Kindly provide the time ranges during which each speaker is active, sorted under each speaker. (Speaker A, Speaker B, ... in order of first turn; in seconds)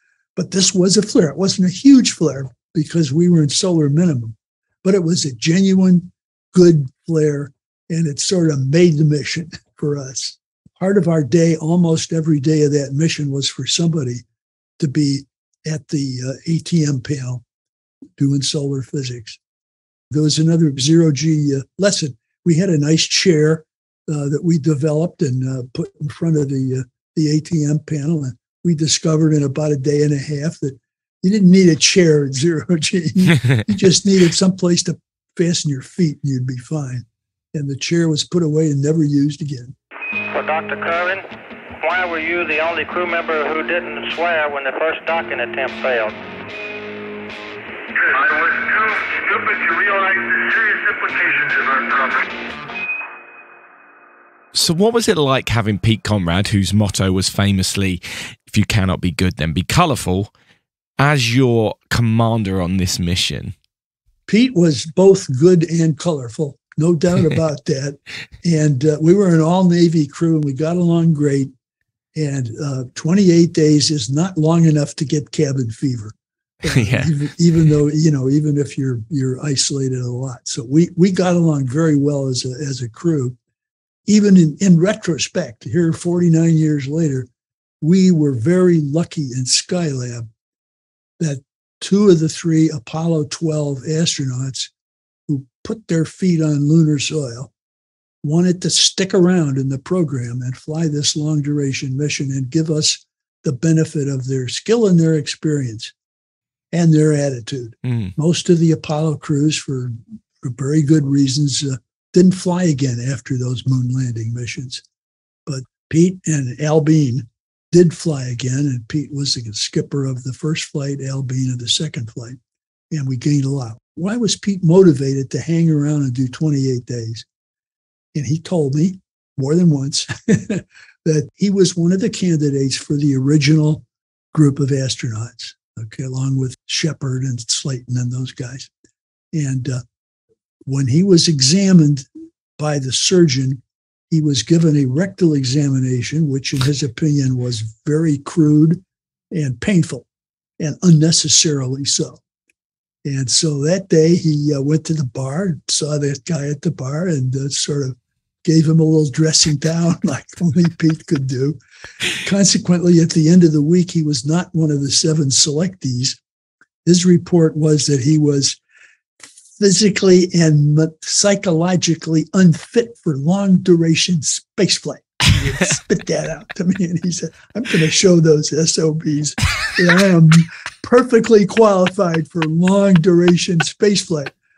Speaker A: 0.3-14.2, 14.8-17.4, 18.2-19.4, 20.1-39.7, 64.3-71.5, 72.1-83.4, 84.1-87.3, 87.8-90.3, 91.2-94.7, 95.3-97.5, 98.2-105.9, 106.7-114.8, 115.5-122.4, 122.9-127.2, 128.1-138.7, 139.3-139.8, 140.7-142.1, 142.6-150.1, 150.6-152.2, 153.0-161.6, 162.2-166.2, 166.8-168.6, 169.6-184.3
Speaker B: 40.3-41.2, 41.8-46.1
Speaker C: 48.0-52.3
Speaker D: 54.5-60.3, 61.0-63.5, 76.7-77.1, 107.8-108.1